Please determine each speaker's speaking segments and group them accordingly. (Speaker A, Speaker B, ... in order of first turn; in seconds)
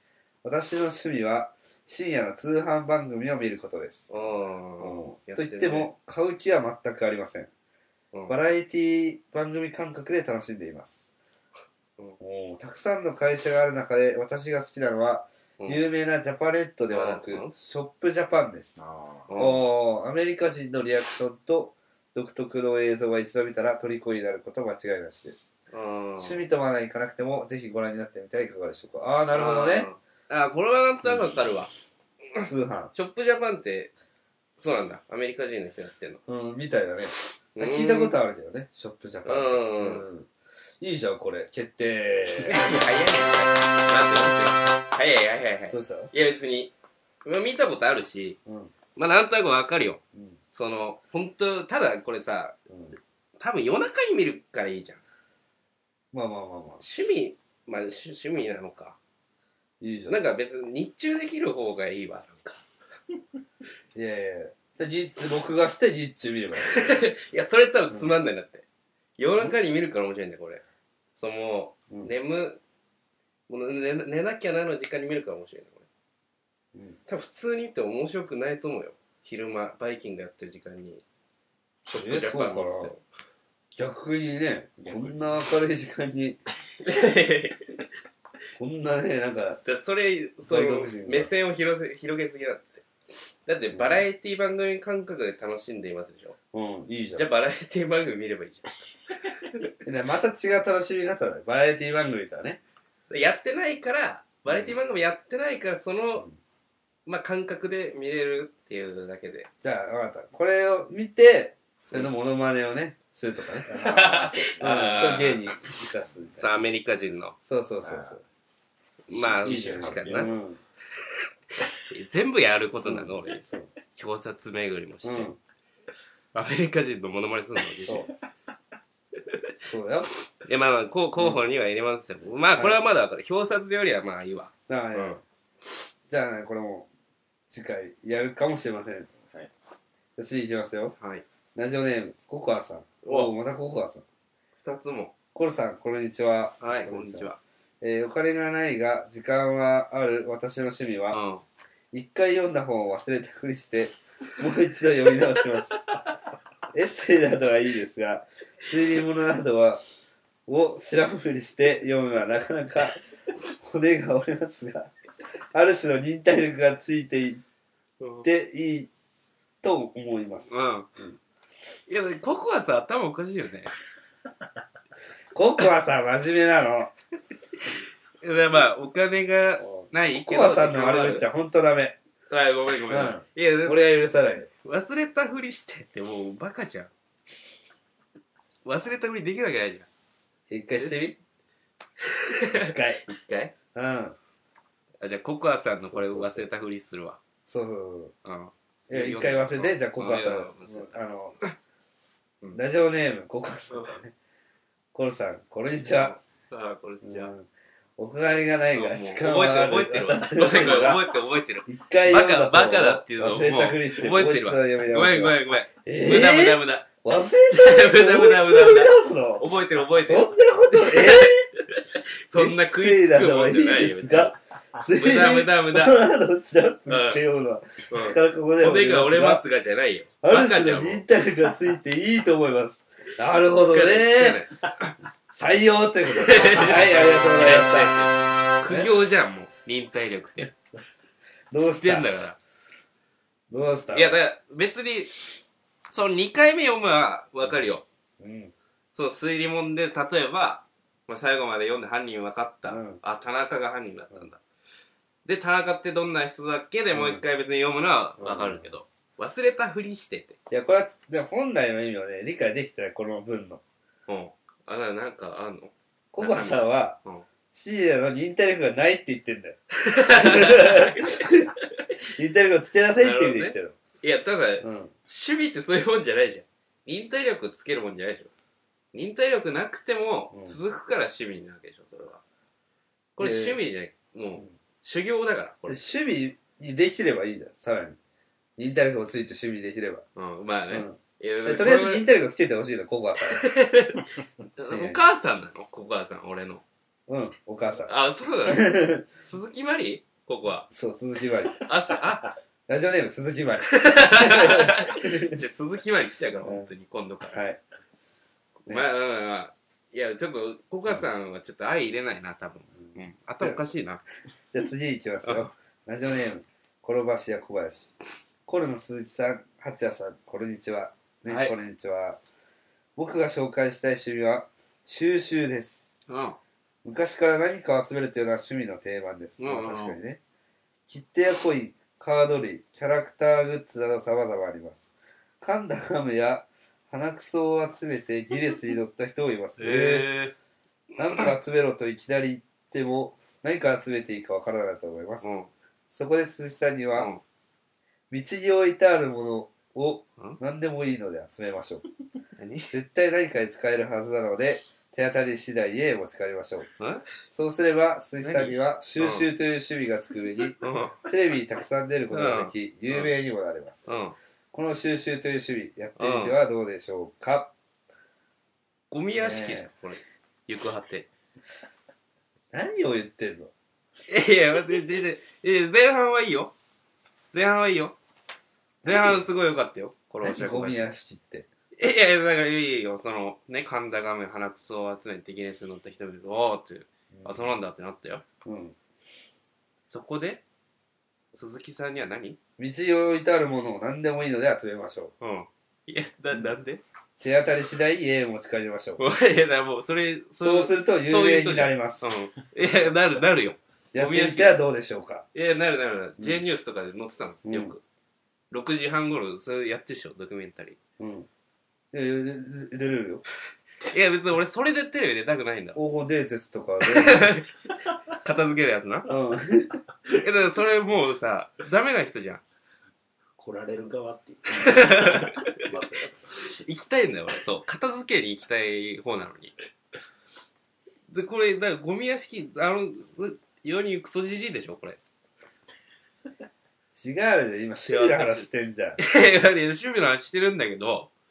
Speaker A: 0.4-4.2, 4.8-7.5, 8.3-11.1, 12.2-18.8, 19.4-25.5, 26.2-29.9, 32.4-32.9, 36.3-40.3, 40.8-42.7, 45.7-46.1, 48.5-48.7, 50.1-50.4, 52.7-53.0, 56.1-56.8, 59.8-60.2, 63.9-67.0, 76.7-77.0, 81.9-82.9, 83.8-86.4, 88.5-89.6, 90.4-91.3, 93.7-94.1, 96.5-97.2, 99.8-102.6, 104.5-104.8, 109.6-116.5, 117.4-118.2, 119.4-120.6, 122.8-123.7, 125.0-125.4, 129.6-130.1, 131.2-131.4, 134.7-135.2, 136.1-136.9, 137.5-139.1, 140.2-140.9, 141.5-144.0, 145.3-147.3, 147.8-151.2, 151.9-155.8, 156.7-159.8, 160.5-163.0, 163.6-164.9, 165.5-167.4, 168.2-168.9, 169.6-171.2, 175.3-176.9, 179.6-182.0, 182.9-184.5, 190.5-191.2, 192.5-193.0, 193.7-194.2, 195.8-196.5, 197.5-198.1, 198.9-201.4, 202.5-204.1, 204.9-206.1, 207.0-211.1, 211.7-221.4, 222.3-229.4, 230.2-234.4, 235.3-238.0, 238.7-238.9, 241.5-242.1, 243.5-244.2, 248.2-248.5, 252.7-253.0, 256.9-257.2, 258.2-258.7, 260.5-263.6, 266.1-267.0, 267.5-271.5, 272.1-273.8, 274.6-274.9, 280.3-280.6, 283.2-283.6, 285.7-288.0, 288.6-290.0, 290.7-293.5, 294.7-295.0, 297.1-297.9, 298.4-299.0, 300.7-301.6, 302.7-305.4, 306.4-306.7, 307.3-307.6, 312.8-313.6, 314.5-317.9, 318.4-322.2, 322.9-325.9, 326.8-330.2, 330.9-340.1, 341.0-347.1, 348.1-351.8, 352.7-356.7, 357.3-363.9, 364.5-367.5, 369.1-369.7, 372.5-373.5, 378.8-379.2, 380.2-381.5, 387.1-387.5, 388.4-388.8, 392.6-395.1, 397.2-399.0, 400.4-402.2, 403.9-405.3, 407.4-407.7, 411.0-411.3, 411.9-413.2, 415.7-417.3, 419.1-419.8, 436.9-439.0
Speaker B: 4.1-5.9, 16.9-17.5, 19.3-19.7, 25.7-26.4, 29.3-31.7, 32.9-33.9, 34.6-36.2, 37.5-38.1, 39.2-40.0, 42.4-46.7, 47.2-48.4, 48.9-50.0, 50.5-52.6, 53.4-55.0, 56.8-59.0, 60.1-62.6, 66.6-68.6, 69.2-70.6, 71.2-72.6, 73.5-75.9, 77.1-81.0, 81.9-83.0, 86.8-87.7, 89.6-92.8, 93.5-96.4, 97.1-98.7, 103.1-106.3, 107.0-109.5, 113.7-115.5, 116.4-117.3, 119.1-120.3, 121.7-125.3, 126.3-128.1, 130.4-135.2, 141.0-141.2, 143.0-143.3, 144.6-145.1, 146.6-147.4, 151.1-151.4, 168.0-168.3, 170.5-170.9, 171.9-173.7, 178.2-181.2, 182.3-183.8, 184.6-186.9, 188.6-189.9, 192.0-193.5, 195.0-197.2, 198.2-201.5, 205.9-207.3, 208.7-216.9, 217.5-224.4, 224.9-226.1, 226.9-227.2, 227.9-231.1, 233.6-234.9, 236.1-240.5, 241.7-242.4, 243.9-245.4, 245.9-247.8, 248.9-254.4, 255.2-260.4, 264.1-267.2, 269.7-271.9, 273.0-278.3, 278.9-282.2, 283.1-285.8, 290.1-292.0, 293.3-296.6, 297.8-300.7, 301.6-302.3, 303.7-307.4, 308.6-314.0, 315.2-315.5, 321.3-321.5, 326.1-326.4, 329.4-330.0, 339.6-340.3, 345.2-345.5, 346.9-347.2, 352.4-352.7, 356.8-357.1, 358.2-359.2, 360.6-361.0, 362.1-363.1, 363.9-364.1, 366.0-366.4, 368.9-371.1, 374.1-376.5, 377.3-378.0, 378.8-380.8, 381.8-388.2, 389.9-390.4, 391.3-392.4, 395.2-396.8, 399.0-404.6, 405.3-407.8, 408.5-410.8, 413.9-415.8, 416.8-417.5, 418.2-419.1, 420.2-422.4, 424.6-425.6, 426.4-429.5, 431.1-435.0, 437.8-438.5, 439.0-441.1
Speaker C: 18.8-19.3, 84.8-85.4, 113.9-115.1, 117.8-118.2, 119.1-120.3, 423.4-426.3